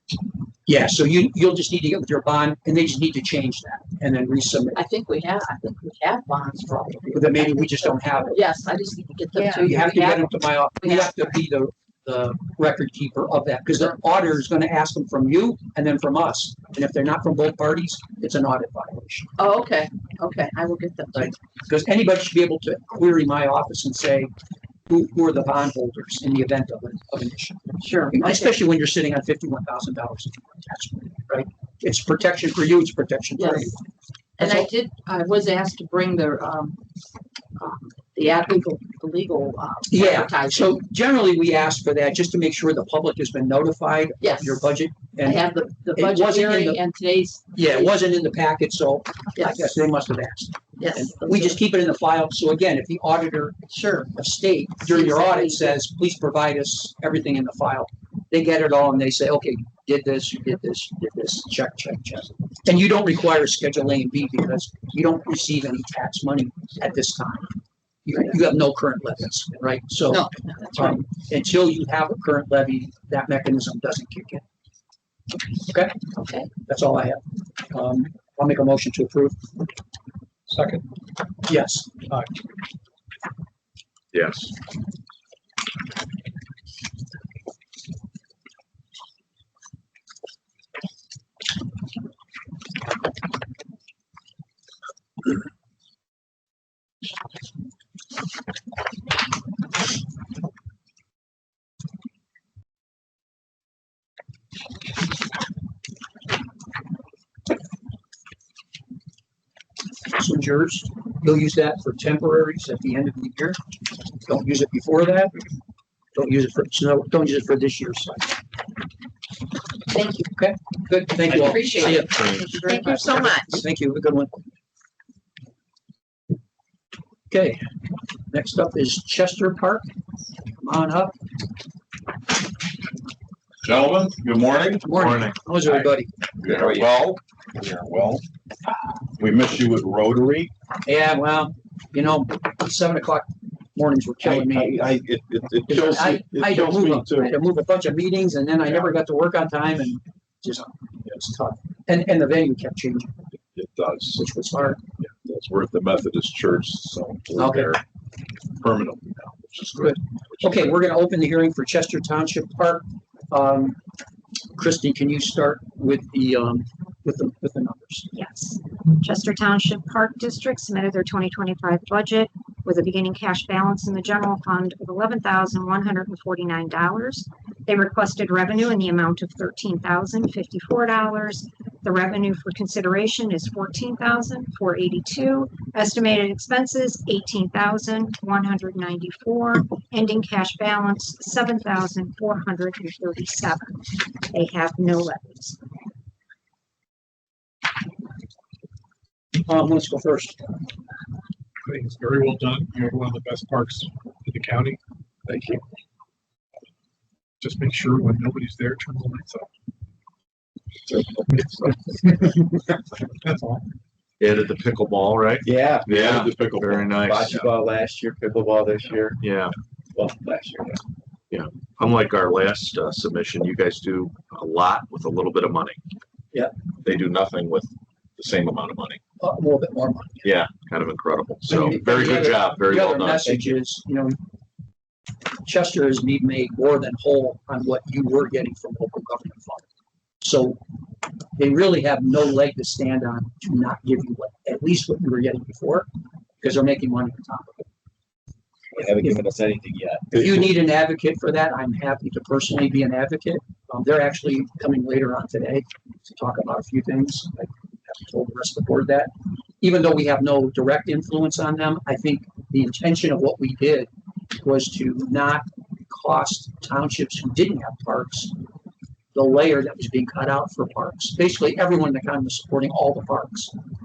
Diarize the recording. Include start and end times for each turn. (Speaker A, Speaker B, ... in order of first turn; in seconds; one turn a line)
Speaker A: 0.7-4.8
Speaker B: 4.7-11.1
Speaker A: 7.1-8.4
Speaker A: 9.6-19.3
Speaker B: 19.4-21.4
Speaker A: 21.1-24.3
Speaker A: 24.9-33.8
Speaker B: 27.8-28.5
Speaker B: 33.4-33.7
Speaker B: 34.4-36.8
Speaker A: 34.4-34.7
Speaker B: 37.6-40.8
Speaker A: 39.9-46.8
Speaker B: 44.2-44.7
Speaker B: 45.2-48.0
Speaker A: 47.5-53.6
Speaker B: 49.4-49.9
Speaker B: 50.8-51.6
Speaker B: 53.7-54.1
Speaker A: 54.1-67.5
Speaker B: 54.9-55.8
Speaker A: 68.0-74.4
Speaker B: 70.1-71.0
Speaker A: 75.7-76.0
Speaker A: 76.5-79.4
Speaker A: 81.5-81.9
Speaker C: 84.1-84.5
Speaker A: 110.1-113.6
Speaker A: 114.2-115.4
Speaker A: 116.1-118.4
Speaker B: 120.0-120.2
Speaker A: 120.3-124.4
Speaker B: 121.3-123.5
Speaker C: 121.9-122.5
Speaker A: 127.3-127.6
Speaker A: 128.3-129.9
Speaker A: 130.6-131.2
Speaker D: 133.6-135.0
Speaker A: 134.8-136.1
Speaker C: 134.9-135.9
Speaker D: 136.4-138.2
Speaker E: 136.5-136.9
Speaker D: 139.2-140.5
Speaker A: 140.9-144.8
Speaker D: 144.2-147.4
Speaker A: 145.7-153.1
Speaker D: 153.5-154.3
Speaker A: 154.2-154.8
Speaker D: 155.2-157.8
Speaker A: 157.4-157.8
Speaker D: 158.6-160.8
Speaker A: 159.8-163.8
Speaker A: 164.6-168.1
Speaker F: 168.2-195.6
Speaker A: 199.4-200.6
Speaker G: 201.7-203.7
Speaker G: 204.3-204.7
Speaker E: 205.3-205.6
Speaker G: 207.4-209.4
Speaker C: 214.2-217.5
Speaker E: 215.4-219.2
Speaker C: 219.2-219.5
Speaker E: 219.9-220.8
Speaker C: 221.3-225.8
Speaker C: 226.8-229.0
Speaker A: 229.2-230.3
Speaker C: 230.2-233.5
Speaker A: 231.5-234.2
Speaker A: 235.4-239.6
Speaker A: 240.2-240.6
Speaker A: 241.4-245.9
Speaker A: 246.4-247.7
Speaker E: 248.7-250.5
Speaker A: 248.8-249.2
Speaker A: 250.1-268.3
Speaker A: 269.1-273.5